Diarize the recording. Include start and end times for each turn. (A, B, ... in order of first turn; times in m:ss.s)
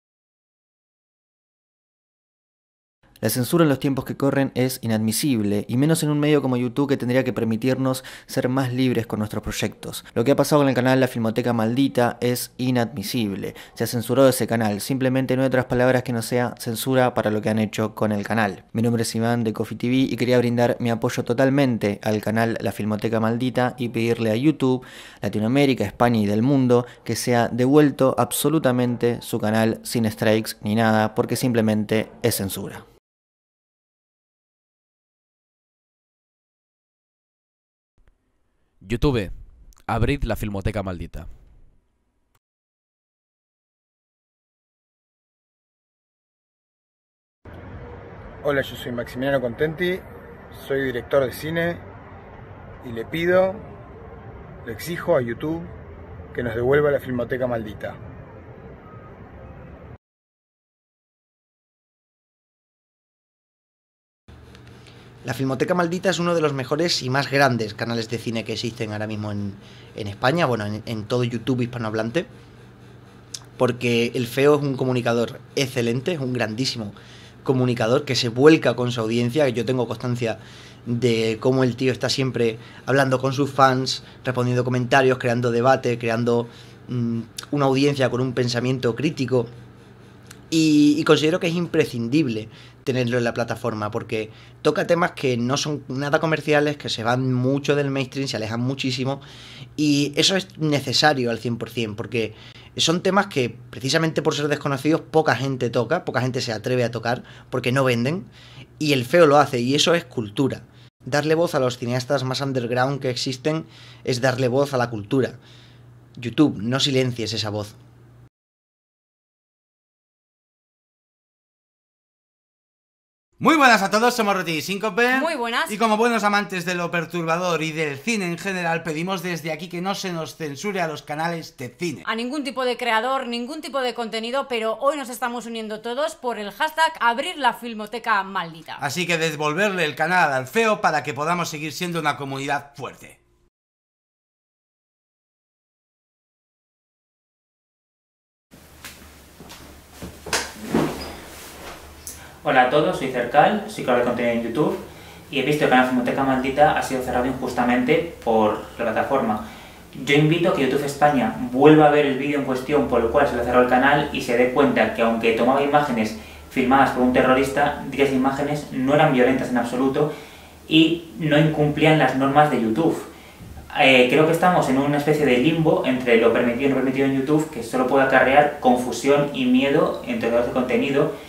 0:03.2-0:32.8 A
0:38.8-0:39.3 B
0:39.8-0:41.2 B
0:48.4-0:50.0 C
0:50.5-0:51.8 C
0:52.8-0:53.6 C
0:54.6-0:55.6 C
0:56.3-0:58.0 C
1:05.2-1:12.3 D
1:13.6-1:29.5 D
1:30.5-1:39.2 D
1:39.8-1:48.3 D
1:48.8-1:55.4 D
1:56.2-1:57.7 D
2:03.4-2:12.0 E
2:05.1-2:05.8 F
2:12.0-2:18.9 F
2:18.8-2:23.2 E
2:32.4-2:39.4 G
2:39.9-2:50.1 G
2:50.7-2:53.1 G
2:53.7-3:01.1 G